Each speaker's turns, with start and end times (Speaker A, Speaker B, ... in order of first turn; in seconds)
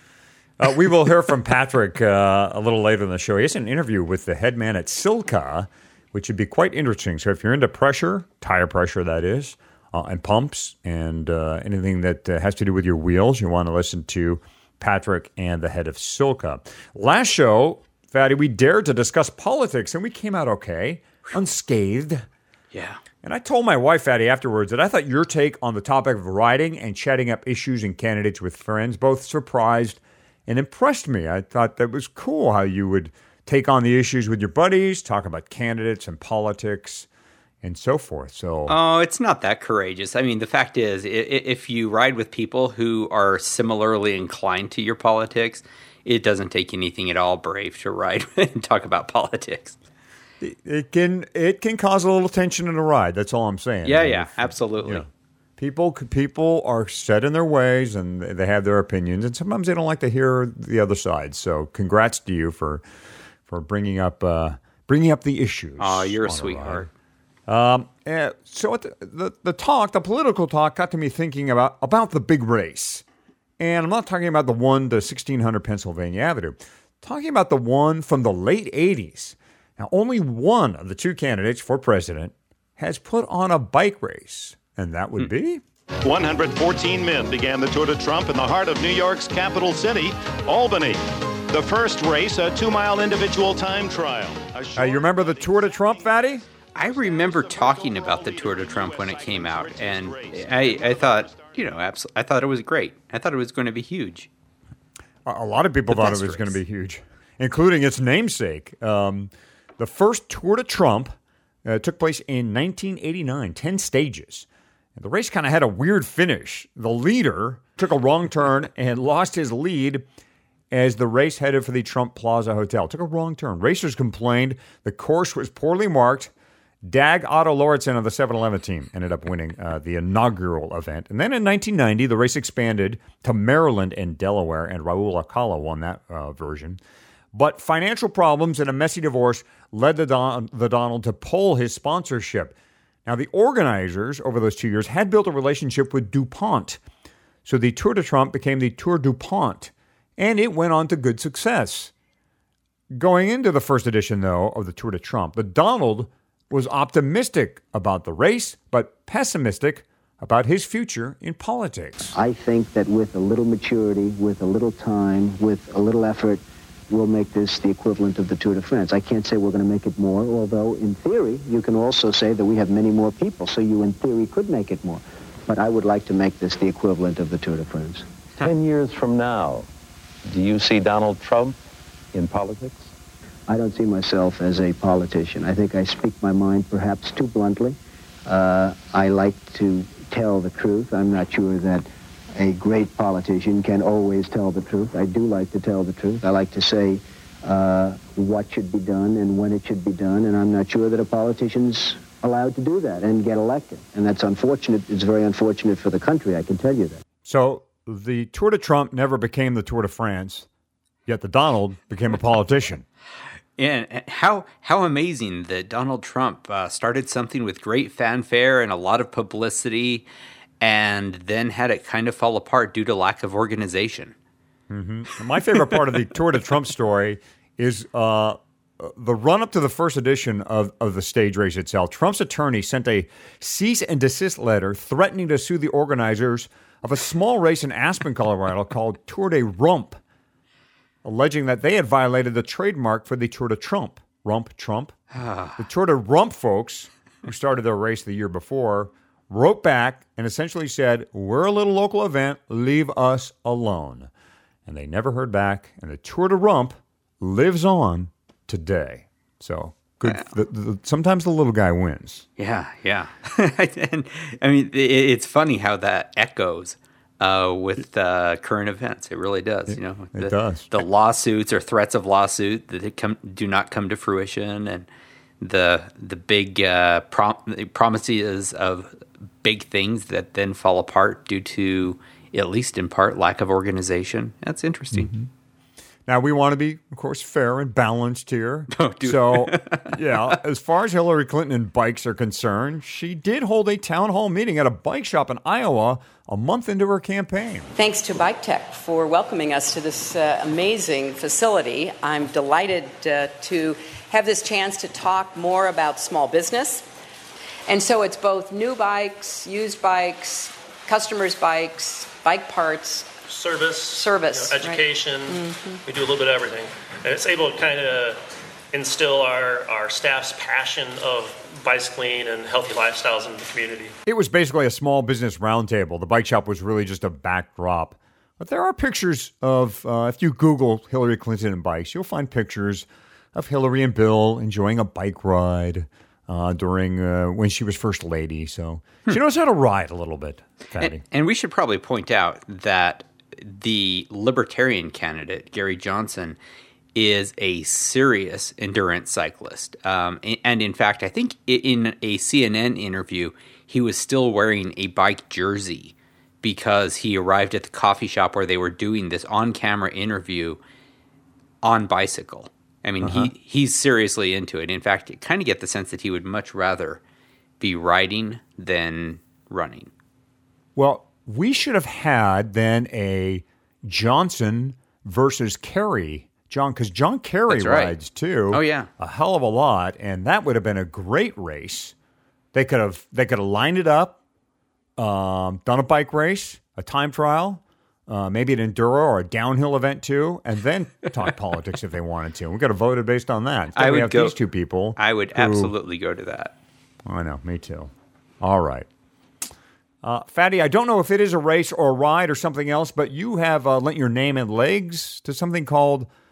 Speaker A: 0.6-22.3, 23.2-37.1, 37.6-38.8, 50.4-62.8, 63.5-66.9, 67.5-73.0, 73.6-85.6, 94.8-96.5, 105.3-111.1, 111.7-120.0, 120.7-126.3, 126.8-136.8, 137.3-146.8, 147.4-151.9, 152.9-162.2, 207.2-210.5, 211.1-212.9, 224.7-240.0, 241.0-245.0, 245.6-254.1, 254.7-262.3, 269.7-270.7, 284.9-285.3, 286.1-297.7, 324.1-341.0, 363.0-363.3, 370.8-381.9, 382.5-384.2, 385.0-395.7, 397.1-398.9, 400.0-406.1
Speaker B: 22.7-23.0, 38.7-49.8, 53.9-55.1, 65.8-66.9, 96.8-104.3, 105.9-106.6, 213.6-220.1, 220.6-224.1, 245.1-245.6, 262.4-274.9, 275.4-285.1, 288.7-290.4, 340.8-346.4, 346.9-360.6, 361.6-367.0, 367.6-369.9, 377.5-378.0, 378.5-378.9, 393.8-394.4, 395.0-396.5
Speaker C: 86.0-96.1, 96.8-101.6
Speaker D: 162.1-178.1, 183.5-207.0
Speaker E: 178.4-179.7, 180.3-181.6, 182.1-182.9
Speaker F: 297.8-306.9, 307.7-313.1, 313.9-315.8
Speaker G: 313.3-318.2, 318.7-324.0